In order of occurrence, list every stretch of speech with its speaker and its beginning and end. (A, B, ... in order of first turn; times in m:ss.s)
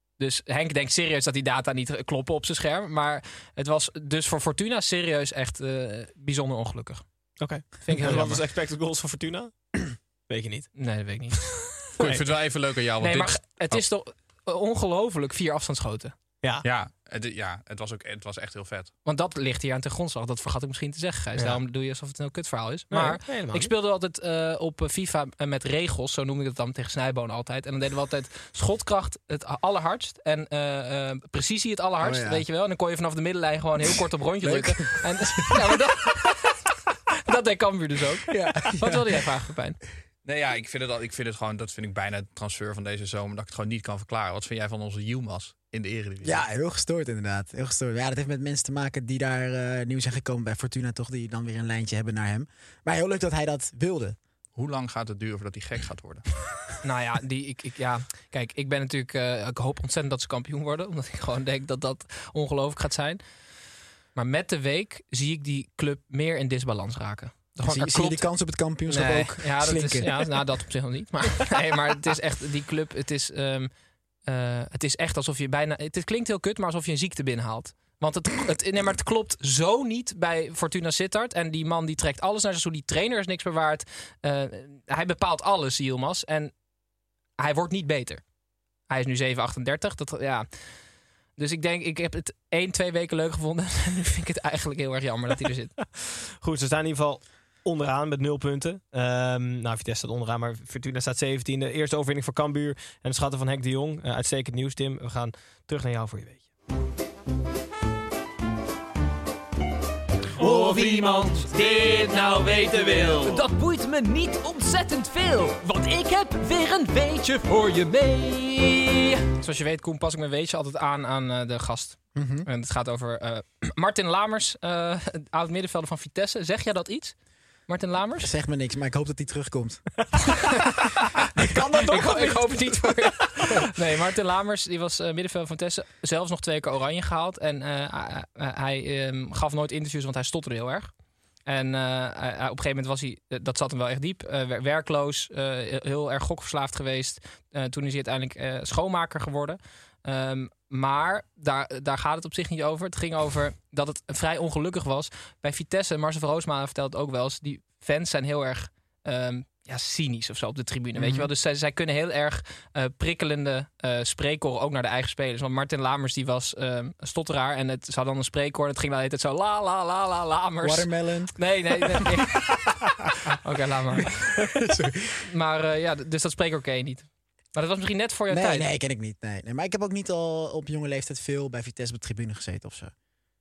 0:00.2-0:07.0 A
0:07.4-0:10.8 B
0:07.6-0:08.4 A
0:10.8-0:11.8 A
0:12.0-0:13.8 C
0:13.0-0:16.1 A
0:16.6-0:18.9 C
0:19.0-0:36.5 A
0:22.9-0:23.7 B
0:32.0-0:32.4 D
0:34.4-0:35.1 D
0:37.3-0:39.8 A
0:38.3-0:39.1 D
0:40.2-0:46.4 C
0:46.2-0:54.2 D
0:54.6-0:56.2 C
0:56.8-1:03.2 A
1:04.2-1:08.3 A
1:07.6-1:10.4 D
1:08.9-1:13.7 A
1:14.2-1:26.5 A
1:27.4-1:28.3 A
1:28.9-1:30.5 A
1:31.4-1:35.8 A
1:36.0-1:46.5 B
1:50.4-1:59.0 E
1:59.4-2:07.2 A
2:02.2-2:02.5 D
2:07.7-2:08.3 A
2:08.2-2:09.9 D
2:11.4-2:12.5 B
2:11.4-2:12.5 D
2:11.9-2:20.9 A
2:21.4-2:52.4 A
2:41.0-2:41.3 D
2:50.6-2:52.6 D
2:53.3-2:54.3 A
2:54.6-2:55.2 D
2:55.3-2:58.7 A
2:58.3-3:02.9 D